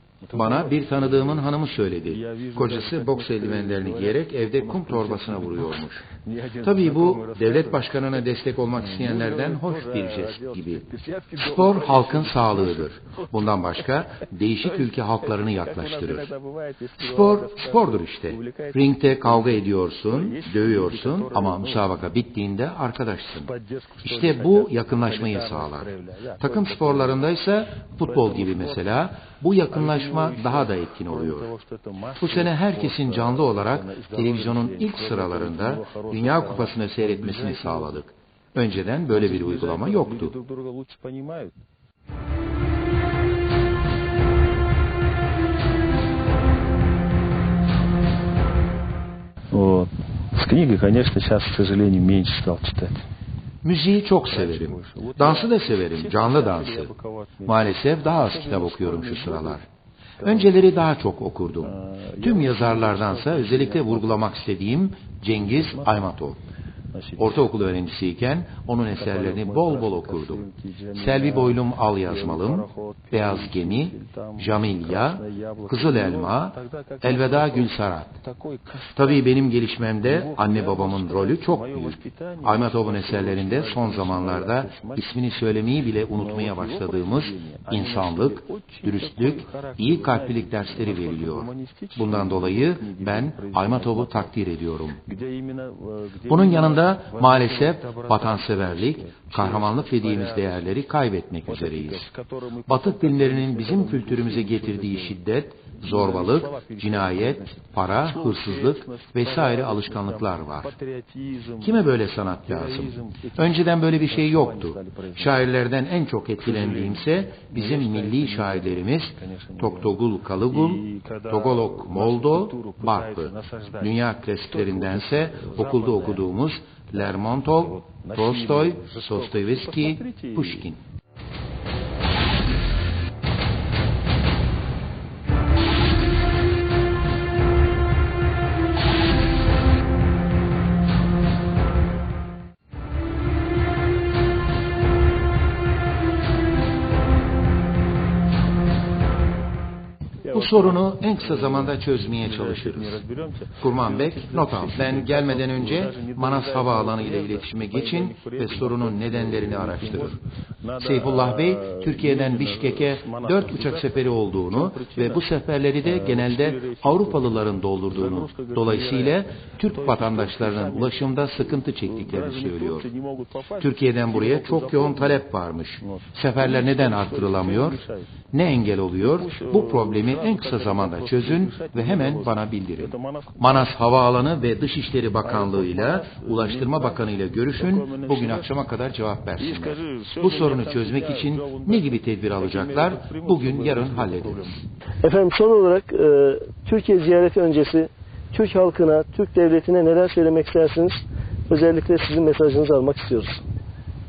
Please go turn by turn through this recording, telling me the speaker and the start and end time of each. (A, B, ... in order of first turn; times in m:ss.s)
0:00.2-0:01.5 A
0:00.3-0:06.0 B
0:02.1-0:07.8 A
0:06.6-0:10.8 B
0:08.7-0:13.3 A
0:11.4-0:16.3 B
0:14.6-0:22.0 A
0:17.0-0:23.5 B
0:23.3-0:27.2 A
0:24.0-0:25.9 B
0:26.4-0:31.5 B
0:28.0-0:28.9 A
0:29.7-0:38.0 A
0:32.2-0:40.4 B
0:39.1-0:41.6 A
0:49.5-0:53.0 A
0:53.6-0:56.9 B
0:54.3-0:59.6 A
0:57.4-0:59.6 B
1:00.2-1:00.8 A
1:00.2-1:06.4 B
1:01.6-1:04.3 A
1:05.5-1:06.1 A
1:06.9-1:07.4 A
1:07.2-1:18.1 B
1:08.9-1:19.3 A
1:18.9-1:35.0 B
1:20.0-1:25.1 A
1:26.1-1:34.4 A
1:35.0-1:40.7 A
1:36.3-1:42.1 B
1:41.4-1:45.2 A
1:42.7-1:50.7 B
1:45.8-1:51.9 A
1:51.6-2:10.8 B
1:52.4-1:55.5 A
1:56.4-1:59.9 A
2:00.4-2:03.9 A
2:04.4-2:06.3 A
2:07.0-2:10.7 A
2:30.2-2:45.3 A
2:30.3-2:33.0 B
2:33.6-2:40.2 B
2:40.8-2:52.9 B
2:45.8-2:55.2 A
2:53.6-3:14.6 B
2:55.8-2:58.1 A
2:59.0-3:03.7 A
3:05.2-3:08.5 A
3:09.4-3:14.6 A
3:15.0-3:23.4 C